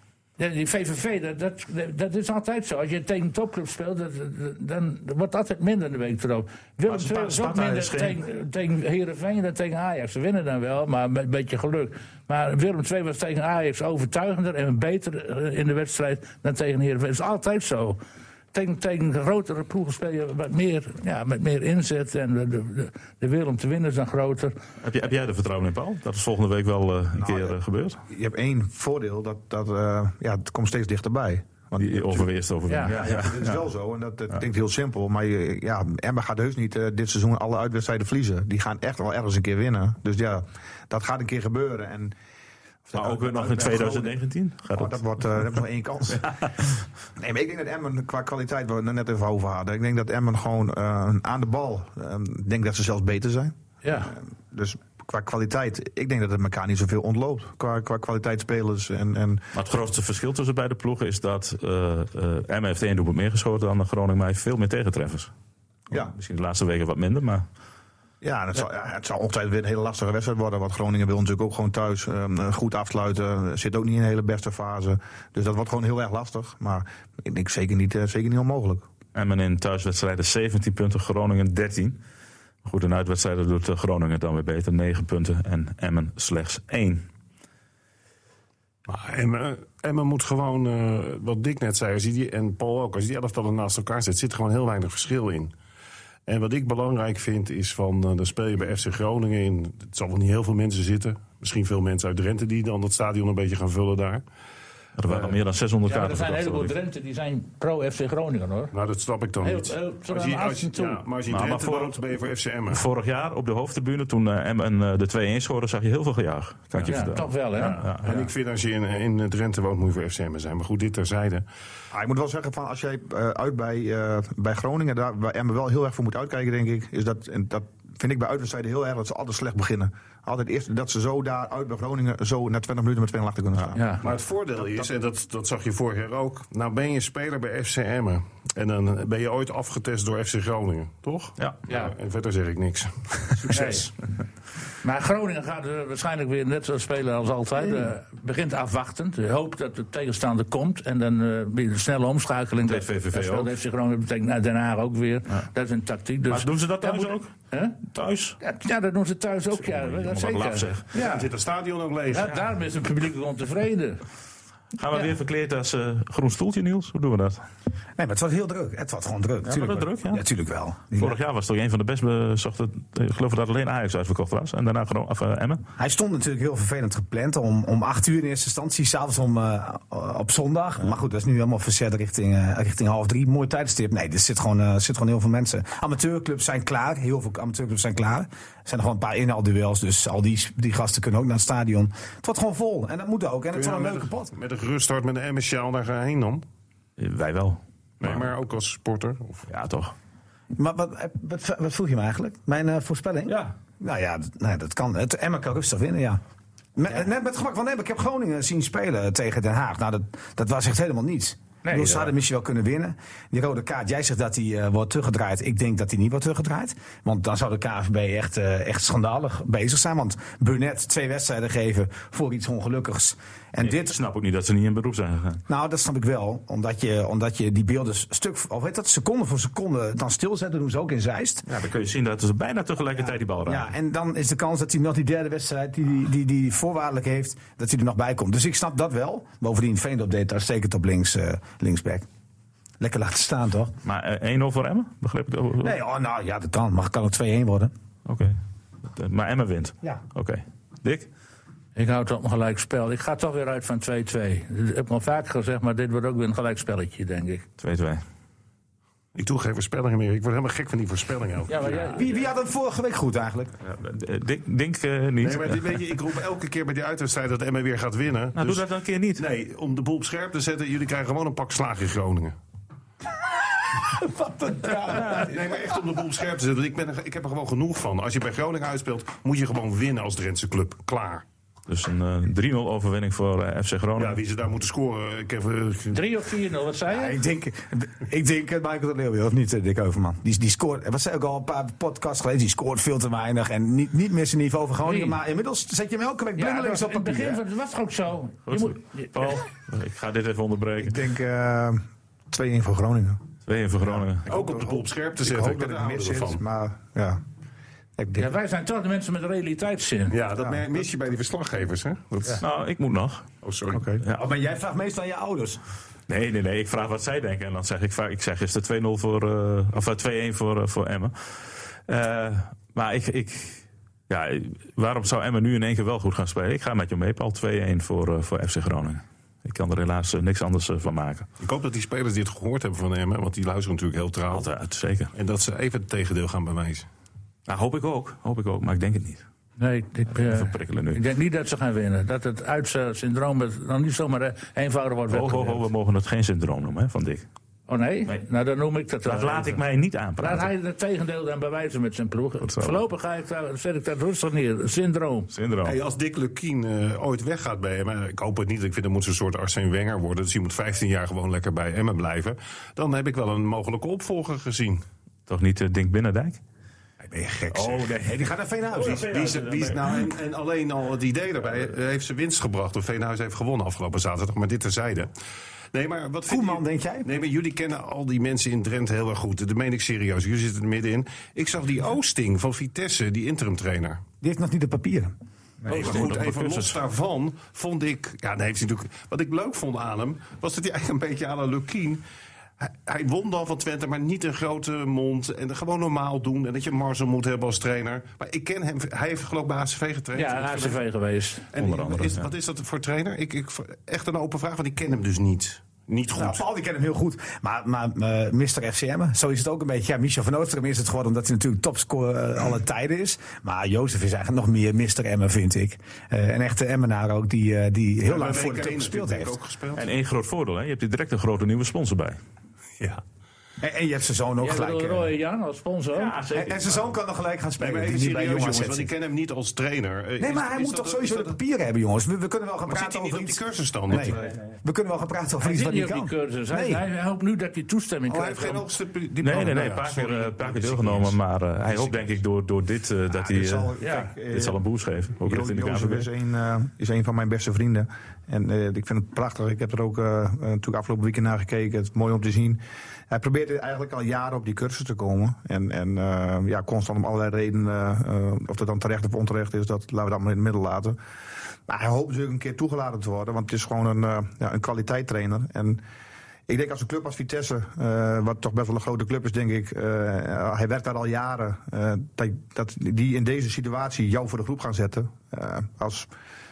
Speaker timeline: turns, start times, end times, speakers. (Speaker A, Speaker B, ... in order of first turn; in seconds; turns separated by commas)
Speaker A: 0.4-18.0, Speaker B: 6.9-8.2, Speaker A: 18.5-24.5, Speaker B: 24.8-28.0, Speaker C: 27.1-27.6, Speaker C: 28.1-32.3, Speaker B: 31.8-33.6, Speaker A: 32.7-32.9, Speaker C: 32.9-42.1, Speaker C: 42.9-44.1, Speaker B: 42.9-45.0, Speaker C: 44.7-46.3, Speaker B: 46.1-46.5, Speaker C: 47.2-59.4, Speaker A: 53.8-54.1, Speaker B: 59.5-65.3, Speaker B: 65.9-67.5, Speaker C: 68.2-78.9, Speaker B: 79.1-82.0, Speaker B: 82.6-87.0, Speaker D: 88.9-95.5, Speaker D: 96.3-104.2, Speaker B: 105.0-106.7, Speaker D: 105.1-105.3, Speaker A: 105.9-108.7, Speaker D: 108.7-112.8, Speaker A: 109.4-111.0, Speaker B: 111.3-112.0, Speaker B: 112.7-118.2, Speaker D: 116.8-117.0, Speaker A: 116.9-117.8, Speaker D: 117.6-121.5, Speaker C: 121.9-133.8, Speaker A: 133.8-134.0, Speaker D: 134.0-143.9, Speaker A: 141.7-141.9, Speaker A: 143.5-143.9, Speaker A: 144.8-157.8, Speaker B: 152.6-153.5, Speaker B: 156.3-157.3, Speaker B: 157.9-158.4, Speaker A: 158.4-161.3, Speaker B: 159.6-160.8, Speaker D: 160.9-162.3, Speaker A: 162.1-164.0, Speaker B: 164.8-167.4, Speaker E: 168.0-171.2, Speaker B: 169.4-170.2, Speaker B: 170.9-175.6, Speaker E: 175.8-194.3, Speaker D: 193.5-196.4, Speaker B: 197.0-198.3, Speaker D: 198.0-199.5, Speaker B: 199.5-199.9, Speaker E: 200.5-206.2, Speaker E: 206.8-223.9, Speaker A: 211.7-212.0, Speaker B: 223.6-225.4, Speaker E: 225.5-231.5, Speaker B: 231.5-233.7, Speaker E: 233.0-242.1, Speaker E: 242.8-243.7, Speaker B: 243.8-245.7, Speaker E: 245.6-247.7, Speaker B: 248.1-248.4, Speaker B: 248.9-251.1, Speaker A: 251.8-257.4, Speaker B: 257.6-258.0, Speaker D: 259.1-262.0, Speaker A: 261.5-262.1, Speaker E: 261.9-263.5, Speaker B: 263.6-265.8, Speaker D: 265.2-268.6, Speaker B: 268.4-269.3, Speaker D: 269.1-272.4, Speaker E: 273.9-275.3, Speaker B: 275.0-275.3, Speaker D: 275.0-281.2, Speaker B: 281.7-284.2, Speaker D: 283.9-286.0, Speaker A: 285.9-287.2, Speaker E: 286.9-297.4, Speaker A: 294.9-295.2, Speaker A: 296.4-299.4, Speaker B: 298.5-301.0, Speaker C: 300.8-303.2, Speaker B: 303.4-304.3, Speaker C: 303.8-307.2, Speaker D: 304.3-306.4, Speaker C: 308.0-308.3, Speaker A: 308.1-310.2, Speaker D: 310.1-312.4, Speaker B: 312.4-313.4, Speaker D: 313.4-313.9, Speaker E: 314.1-315.6, Speaker B: 316.1-331.3, Speaker D: 331.4-334.5, Speaker B: 334.3-335.1, Speaker D: 335.1-336.9, Speaker B: 337.5-339.2, Speaker A: 339.6-345.6, Speaker B: 340.1-341.0, Speaker B: 345.1-347.2, Speaker A: 347.7-349.6, Speaker B: 349.0-350.5, Speaker A: 350.2-355.3, Speaker B: 352.4-352.8, Speaker B: 355.3-355.8, Speaker D: 355.6-364.8, Speaker B: 365.3-366.4, Speaker E: 367.0-370.1, Speaker B: 367.5-370.0, Speaker D: 368.8-375.1, Speaker D: 375.7-384.0, Speaker E: 376.3-377.1, Speaker E: 384.2-385.1, Speaker D: 385.7-392.0, Speaker B: 385.7-386.8, Speaker D: 392.6-400.8, Speaker A: 400.1-401.5, Speaker D: 401.5-406.4, Speaker B: 401.6-402.3, Speaker E: 406.1-419.3, Speaker D: 418.0-419.9, Speaker B: 419.7-422.2, Speaker E: 423.6-425.1, Speaker A: 424.4-426.1, Speaker B: 425.9-426.9, Speaker E: 426.3-428.9, Speaker D: 427.6-431.3, Speaker E: 430.2-436.8, Speaker D: 432.7-434.3, Speaker A: 435.4-438.6, Speaker D: 438.1-441.1, Speaker B: 439.2-443.7, Speaker C: 443.1-444.6, Speaker A: 443.8-444.1, Speaker B: 444.3-446.1, Speaker C: 445.2-461.0, Speaker C: 461.7-465.8, Speaker C: 466.5-476.1